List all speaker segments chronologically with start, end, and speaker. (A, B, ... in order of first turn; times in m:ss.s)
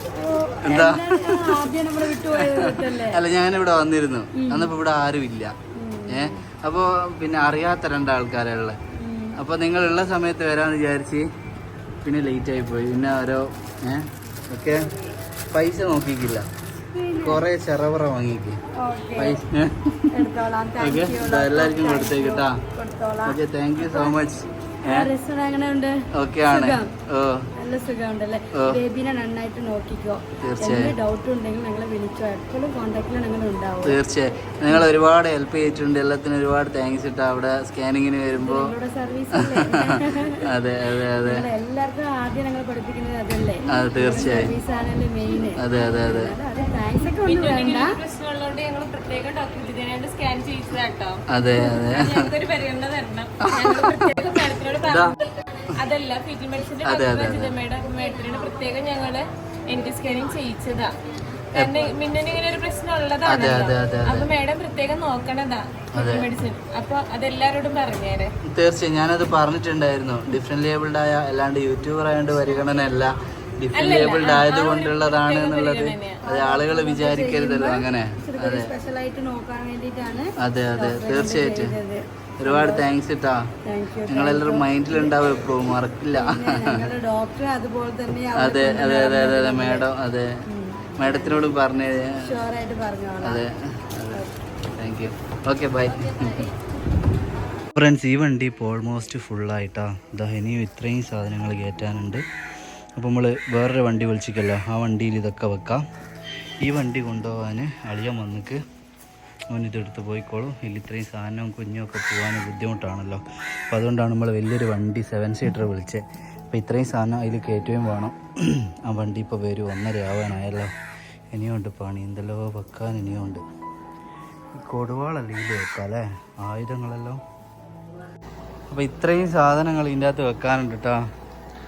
0:00.2-0:03.2 A
0:00.6-0:01.7 B
0:02.3-0:05.5 B
0:04.4-0:04.7 A
0:05.7-0:06.4 A
0:06.1-0:08.8 B
0:09.0-0:09.4 A
0:09.4-0:11.3 B
0:12.0-0:14.9 B
0:15.5-0:16.5 B
0:16.9-0:17.4 A
0:17.2-0:18.6 B
0:18.8-0:19.4 A
0:19.2-0:20.2 B
0:20.1-0:24.2 A
0:20.8-0:22.6 B
0:23.2-0:25.1 B
0:24.8-0:26.9 A
0:26.2-0:27.5 B
0:27.6-0:34.0 A
0:28.5-0:28.8 B
0:30.4-0:31.0 B
0:33.8-0:38.7 B
0:38.3-0:40.5 A
0:39.3-0:41.5 B
0:41.2-0:48.0 A
0:43.7-0:44.6 B
0:45.6-0:46.4 B
0:47.1-1:00.9 C
0:51.3-0:52.3 B
0:53.4-0:54.2 B
0:54.8-0:55.2 B
0:56.8-0:57.5 B
1:01.6-1:01.9 B
1:01.6-1:08.3 C
1:03.3-1:04.3 B
1:06.0-1:06.3 B
1:08.5-1:18.7 B
1:13.7-1:16.2 C
1:16.3-1:22.9 A
1:20.4-1:21.8 B
1:22.4-1:23.5 B
1:23.6-1:29.9 A
1:24.1-1:26.9 B
1:28.3-1:30.3 B
1:30.5-1:31.5 A
1:31.0-1:32.4 B
1:32.2-1:33.4 A
1:33.2-1:36.5 B
1:37.8-1:42.2 B
1:43.0-1:45.8 B
1:46.6-1:48.6 B
1:49.5-2:00.7 B
2:01.3-2:03.4 B
2:04.6-2:07.2 B
2:08.7-2:11.1 B